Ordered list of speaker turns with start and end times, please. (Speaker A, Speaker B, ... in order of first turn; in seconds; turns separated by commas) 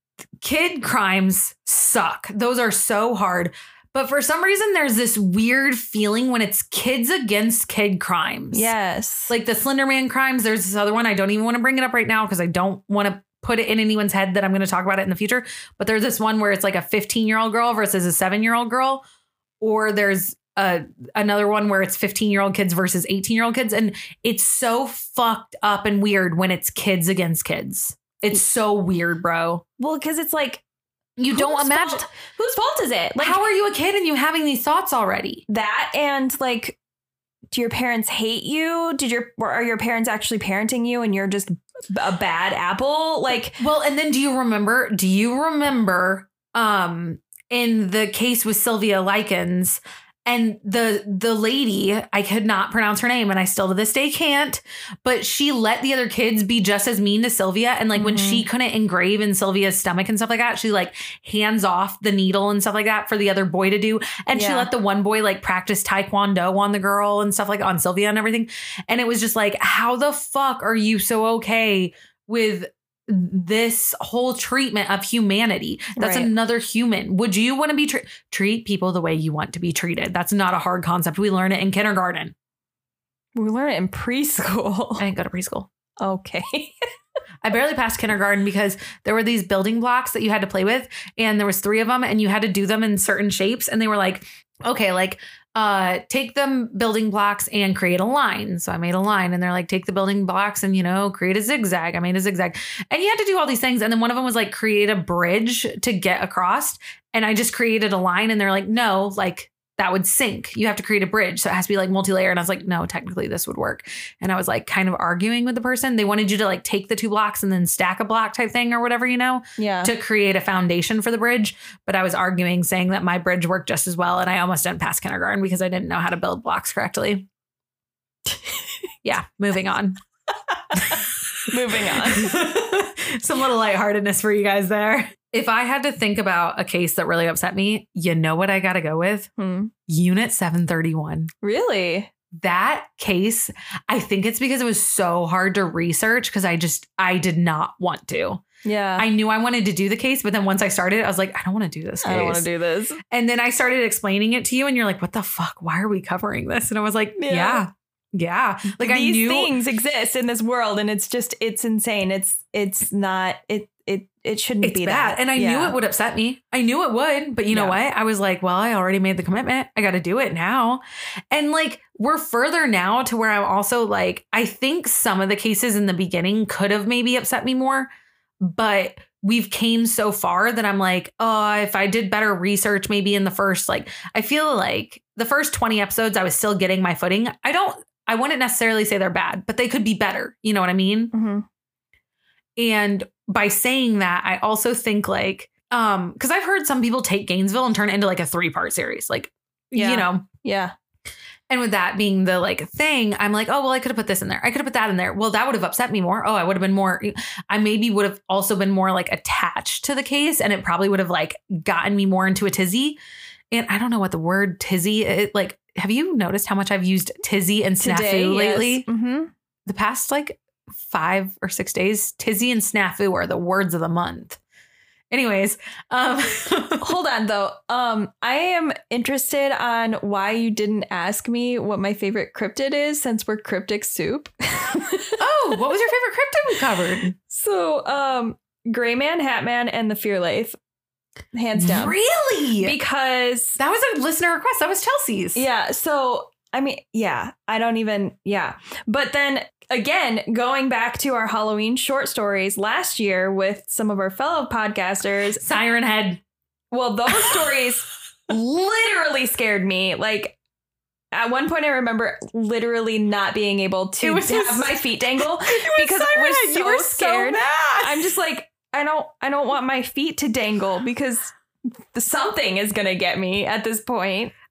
Speaker A: 0.4-8.7, Speaker B: 8.5-9.3, Speaker A: 9.3-19.0, Speaker A: 19.6-29.6, Speaker B: 29.8-30.6, Speaker A: 31.2-32.1, Speaker B: 31.3-33.5, Speaker A: 33.2-35.4, Speaker B: 35.5-36.8, Speaker B: 37.5-43.6, Speaker A: 43.6-82.3, Speaker B: 57.9-58.5, Speaker B: 64.3-64.7, Speaker B: 76.0-76.3, Speaker B: 83.3-85.0, Speaker A: 85.0-85.7, Speaker B: 86.0-86.8, Speaker A: 87.4-127.3, Speaker B: 119.6-119.9, Speaker A: 129.0-130.0, Speaker A: 130.7-131.1, Speaker B: 131.5-132.3, Speaker A: 132.0-139.3, Speaker B: 139.4-139.7, Speaker A: 139.9-141.3, Speaker B: 141.4-142.1, Speaker A: 142.3-148.4, Speaker B: 148.6-149.1, Speaker A: 149.0-152.5, Speaker B: 152.0-153.0, Speaker A: 153.1-159.5, Speaker B: 157.1-157.7, Speaker B: 158.7-165.8, Speaker A: 164.6-177.9, Speaker B: 167.5-167.8, Speaker A: 178.4-191.1, Speaker B: 191.1-191.4, Speaker A: 192.6-200.2, Speaker B: 199.7-200.7, Speaker A: 201.5-213.0, Speaker A: 213.5-218.9, Speaker B: 217.8-219.3, Speaker A: 219.7-224.4, Speaker A: 225.1-226.9, Speaker B: 226.8-235.2, Speaker A: 235.2-237.1, Speaker B: 237.3-240.6, Speaker B: 241.3-241.9, Speaker A: 241.6-242.8, Speaker B: 242.6-243.6, Speaker A: 243.6-245.4, Speaker B: 245.3-255.4, Speaker A: 255.4-256.2, Speaker B: 256.7-260.4, Speaker B: 261.1-274.3, Speaker A: 264.0-268.0